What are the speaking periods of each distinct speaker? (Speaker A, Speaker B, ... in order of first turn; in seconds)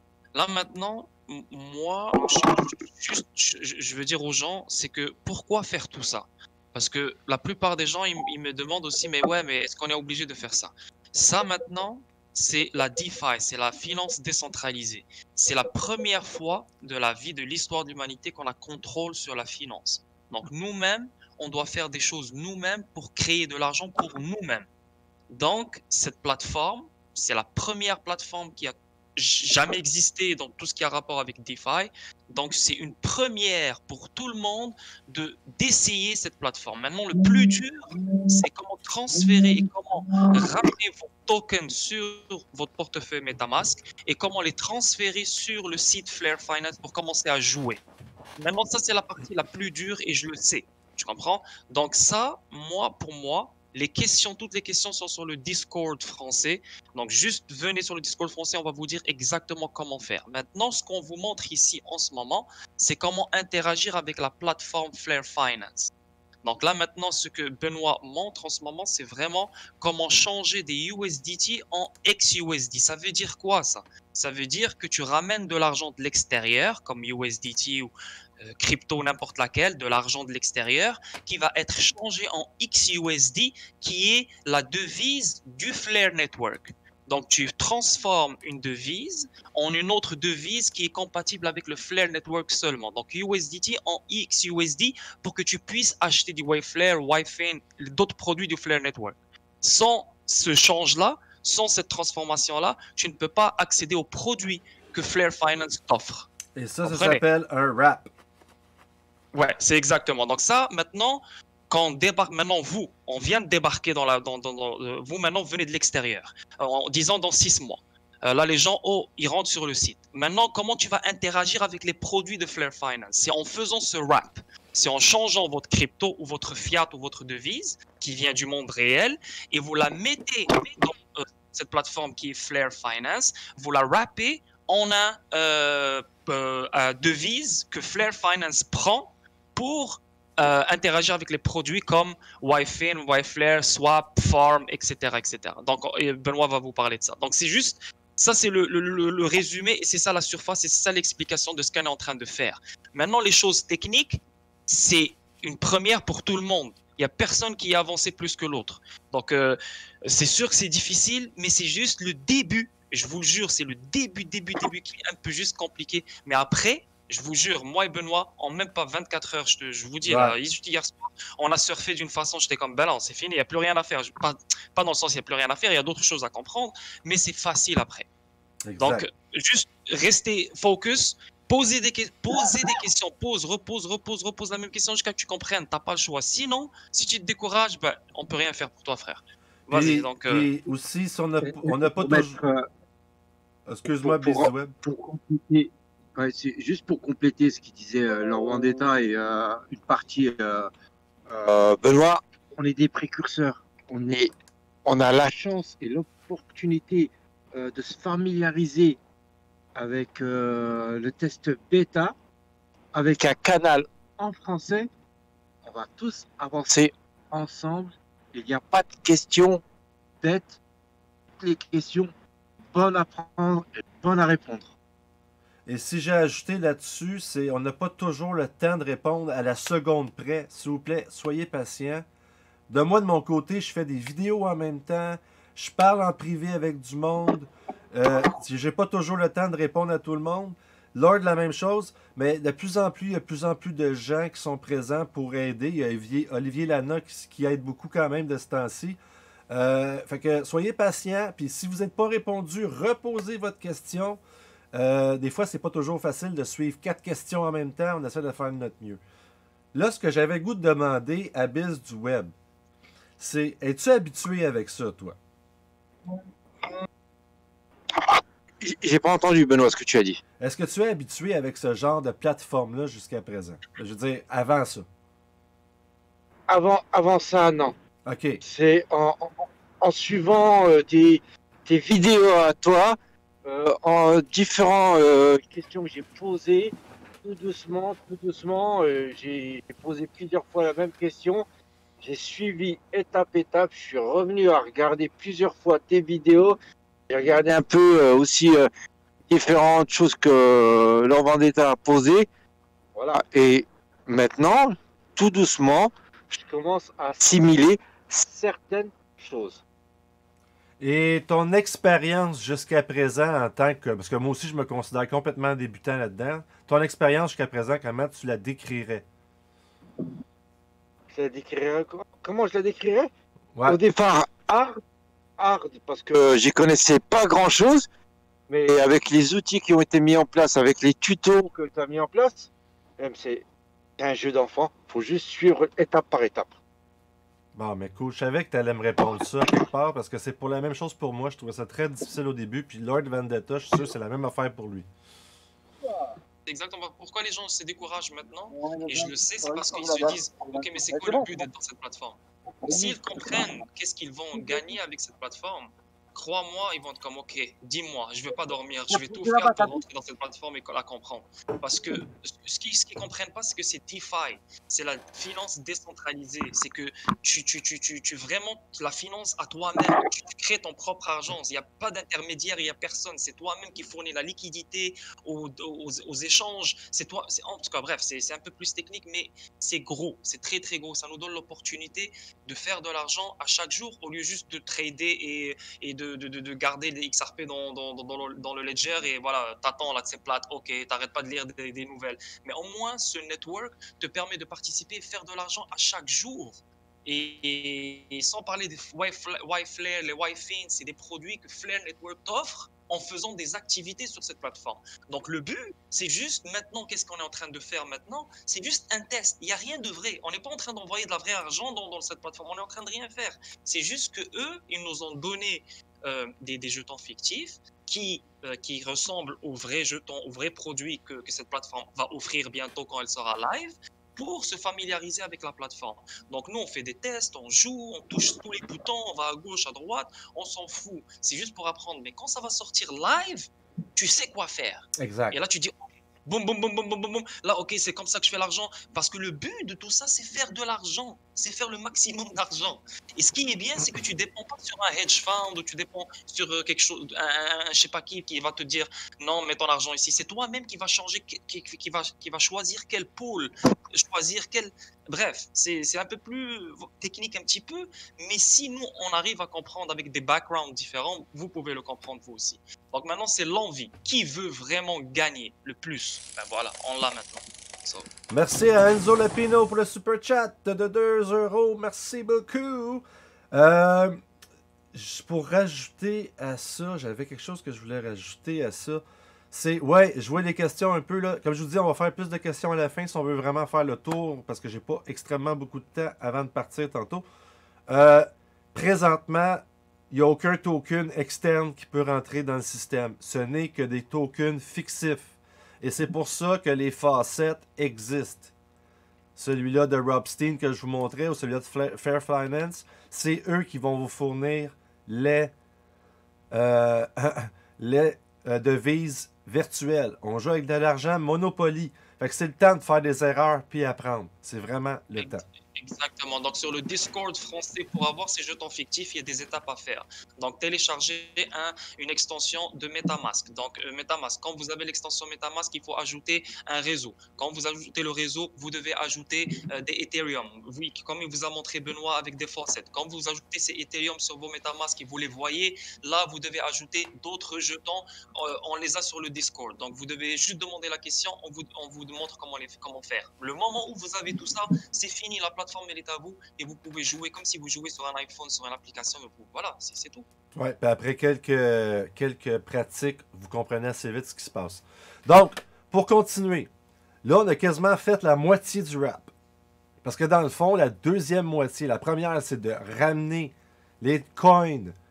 Speaker A: 0.3-24.7, 25.3-47.8, 48.4-65.9, 66.4-106.3, 106.8-107.2, 109.3-178.1, 178.8-190.5, 346.5-435.7, 436.2-468.1, 515.2-550.3
Speaker B: 106.5-108.1, 170.0-170.4, 178.7-179.1, 189.7-192.4, 193.7-194.7, 225.7-232.1, 232.7-249.0, 249.5-254.2, 254.7-259.0, 259.7-262.3, 263.2-265.2, 270.4-274.9, 278.1-278.4, 310.8-319.1, 337.6-344.9, 435.0-435.4, 468.3-474.2, 474.9-487.2, 487.9-498.5, 499.4-505.5, 506.5-515.4, 550.5-556.7, 557.2-559.3, 560.0-564.9
Speaker C: 191.4-192.7, 193.9-200.7, 201.3-204.3, 204.8-209.0, 209.8-212.1, 212.9-214.9, 215.6-219.6, 220.2-220.6, 221.4-222.1, 222.7-224.7, 266.1-266.8, 267.9-270.2, 276.5-277.8, 278.4-291.4, 292.0-296.6, 297.1-298.7, 299.3-302.3, 302.9-309.6, 321.1-323.1, 323.6-324.8, 325.4-327.9, 328.5-333.4, 334.0-336.5, 348.6-351.4, 352.7-352.9, 358.9-359.8